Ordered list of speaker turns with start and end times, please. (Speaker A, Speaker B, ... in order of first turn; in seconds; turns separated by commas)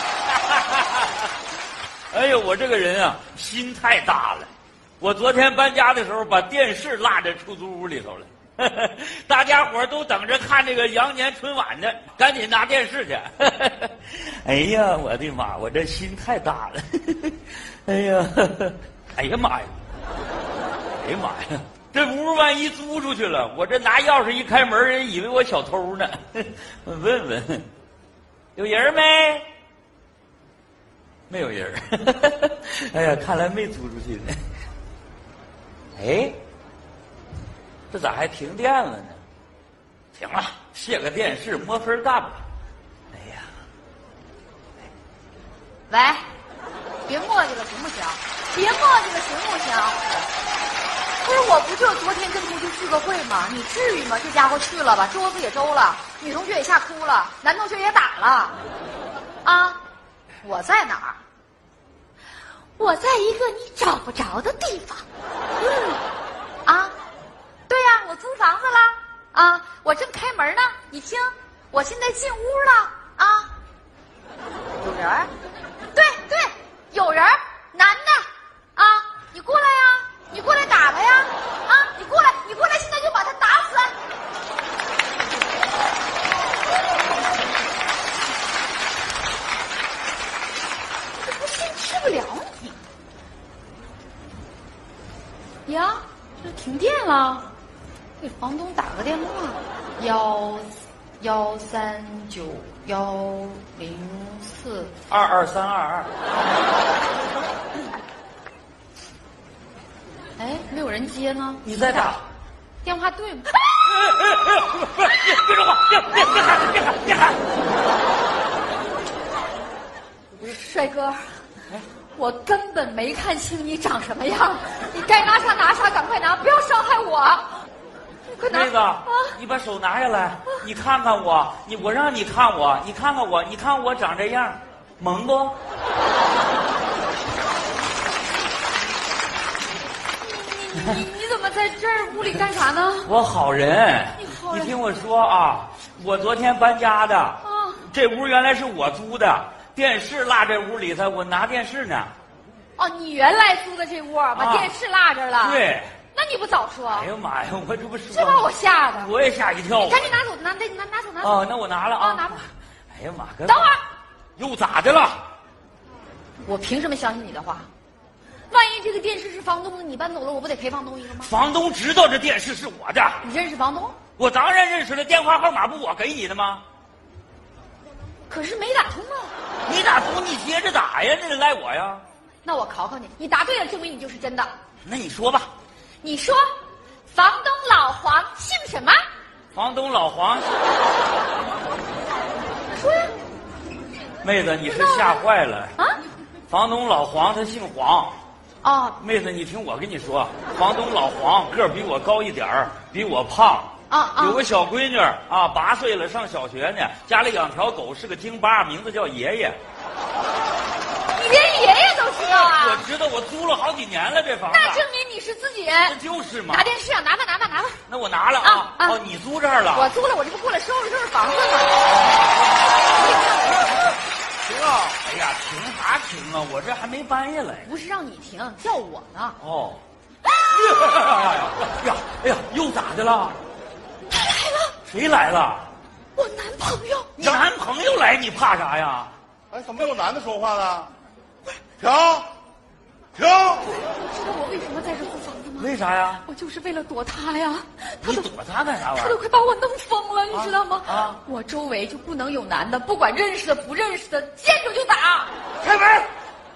Speaker A: 0.3-1.3, Speaker A: 2.1-19.8, Speaker A: 21.0-27.7, Speaker A: 28.6-29.5, Speaker A: 31.3-34.4, Speaker A: 36.0-36.4, Speaker A: 37.9-39.2, Speaker A: 40.1-42.5, Speaker A: 43.1-43.5, Speaker B: 45.9-46.2, Speaker B: 47.1-50.2, Speaker B: 51.2-58.6, Speaker B: 59.5-59.8, Speaker B: 60.4-61.2, Speaker B: 62.8-65.0, Speaker B: 65.6-66.0, Speaker B: 66.7-66.9, Speaker B: 67.7-73.5, Speaker B: 74.8-75.3, Speaker B: 76.0-84.0, Speaker B: 91.2-92.8, Speaker B: 95.7-97.5, Speaker B: 98.2-104.9, Speaker A: 105.1-106.1, Speaker B: 110.4-112.1, Speaker A: 111.6-112.2, Speaker B: 112.8-113.6, Speaker A: 113.8-117.4, Speaker B: 120.4-121.4, Speaker B: 122.2-127.6, Speaker B: 128.3-129.3, Speaker A: 128.4-135.6, Speaker B: 140.2-143.1, Speaker A: 143.1-152.1, Speaker B: 144.2-144.8, Speaker B: 147.4-147.9, Speaker B: 152.8-155.6, Speaker A: 154.3-154.7, Speaker A: 155.4-155.9, Speaker B: 156.1-157.1, Speaker A: 156.9-160.1, Speaker B: 158.1-159.1, Speaker B: 159.8-161.4, Speaker A: 161.2-163.7, Speaker B: 161.9-162.5, Speaker B: 163.5-163.8, Speaker A: 164.4-165.2, Speaker B: 166.4-167.7, Speaker B: 168.5-171.3, Speaker A: 171.2-173.2, Speaker B: 173.2-174.0, Speaker A: 174.2-176.6, Speaker B: 178.3-179.3, Speaker A: 179.7-182.0, Speaker B: 182.4-184.5, Speaker A: 184.8-185.5, Speaker B: 186.0-186.4, Speaker B: 187.1-189.0, Speaker A: 189.5-190.6, Speaker B: 192.7-193.2, Speaker A: 194.2-195.8, Speaker B: 194.7-195.2, Speaker B: 195.8-196.0, Speaker A: 196.5-198.2, Speaker B: 198.6-199.0, Speaker A: 199.0-209.6, Speaker B: 203.9-204.4, Speaker B: 211.2-212.9, Speaker A: 212.2-214.8, Speaker B: 214.5-216.0, Speaker A: 215.8-216.7, Speaker B: 216.5-217.8, Speaker A: 217.9-219.9, Speaker B: 218.4-219.0, Speaker B: 219.7-221.9, Speaker B: 222.9-224.0, Speaker A: 224.7-227.7, Speaker B: 227.6-229.4, Speaker A: 229.4-229.8, Speaker A: 230.4-233.4, Speaker B: 234.1-234.8, Speaker A: 234.9-235.7, Speaker B: 236.2-237.1, Speaker A: 237.2-239.1, Speaker C: 239.5-240.9, Speaker C: 241.8-242.3, Speaker C: 243.2-243.7, Speaker B: 243.7-245.7, Speaker A: 245.6-246.2, Speaker B: 246.2-248.3, Speaker A: 248.0-249.2, Speaker B: 248.9-255.3, Speaker A: 250.3-251.2, Speaker A: 255.6-256.1